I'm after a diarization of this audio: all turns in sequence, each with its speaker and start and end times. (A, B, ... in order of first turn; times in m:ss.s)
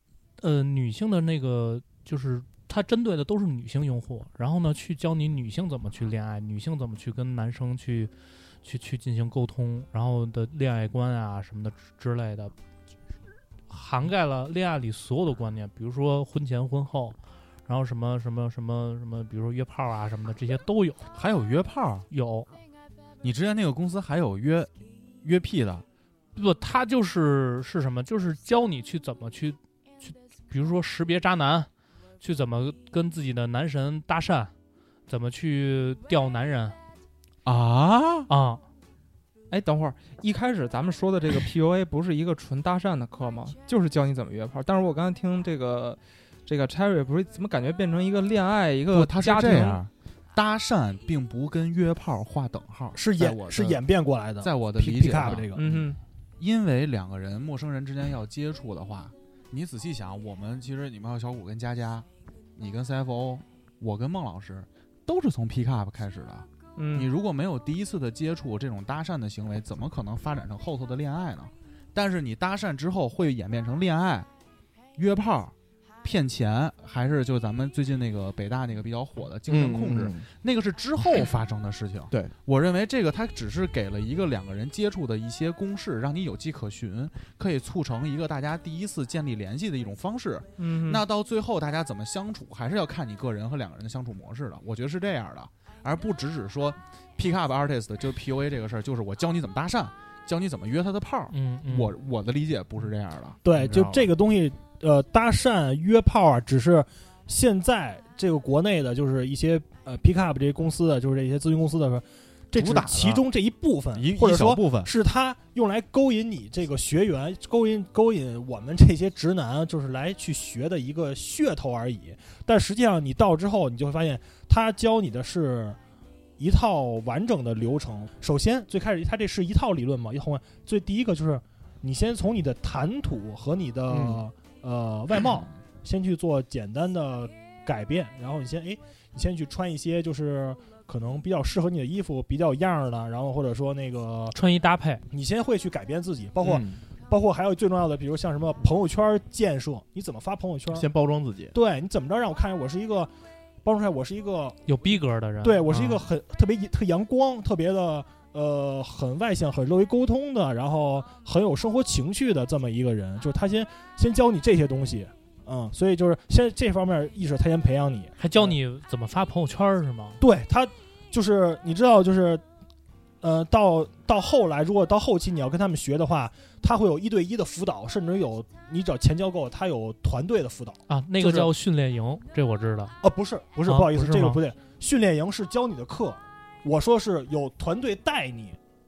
0:00.4-0:08.1 A
0:08.6-0:12.5 A
0:13.7-0:21.0 A
0:21.1-0:22.0 B
0:22.1-0:22.5 A
0:23.2-0:24.7 B
0:25.2-0:25.8 B
0:26.3-0:31.7 A
0:32.2-0:34.5 A
0:35.1-0:36.8 A
0:37.4-0:38.3 B
0:38.3-0:38.6 A
0:39.5-0:49.8 C
0:48.9-0:53.8 B
0:52.9-0:55.6 D
0:54.4-0:55.8 B
0:55.5-0:56.0 C
0:56.4-1:14.3 B
1:06.8-1:07.1 C
1:15.0-1:44.1 B
1:19.5-1:20.2 E
1:30.6-1:31.0 C
1:41.3-1:41.9 A
1:43.4-2:05.8 D
1:52.5-1:53.2 B
1:53.9-1:54.9 B
2:06.4-2:24.4 D
2:13.9-2:14.2 E
2:24.3-2:25.0 A
2:25.1-2:30.9 D
2:26.4-2:26.8 E
2:30.7-2:31.5 E
2:31.5-2:33.1 D
2:33.6-2:34.6 D
2:34.7-2:35.7 A
2:35.4-2:48.5 D
2:48.2-2:50.2 A
2:50.2-2:52.4 D
2:53.2-3:01.5 D
3:00.9-3:03.0 A
3:03.0-3:08.6 D
3:03.6-3:04.4 A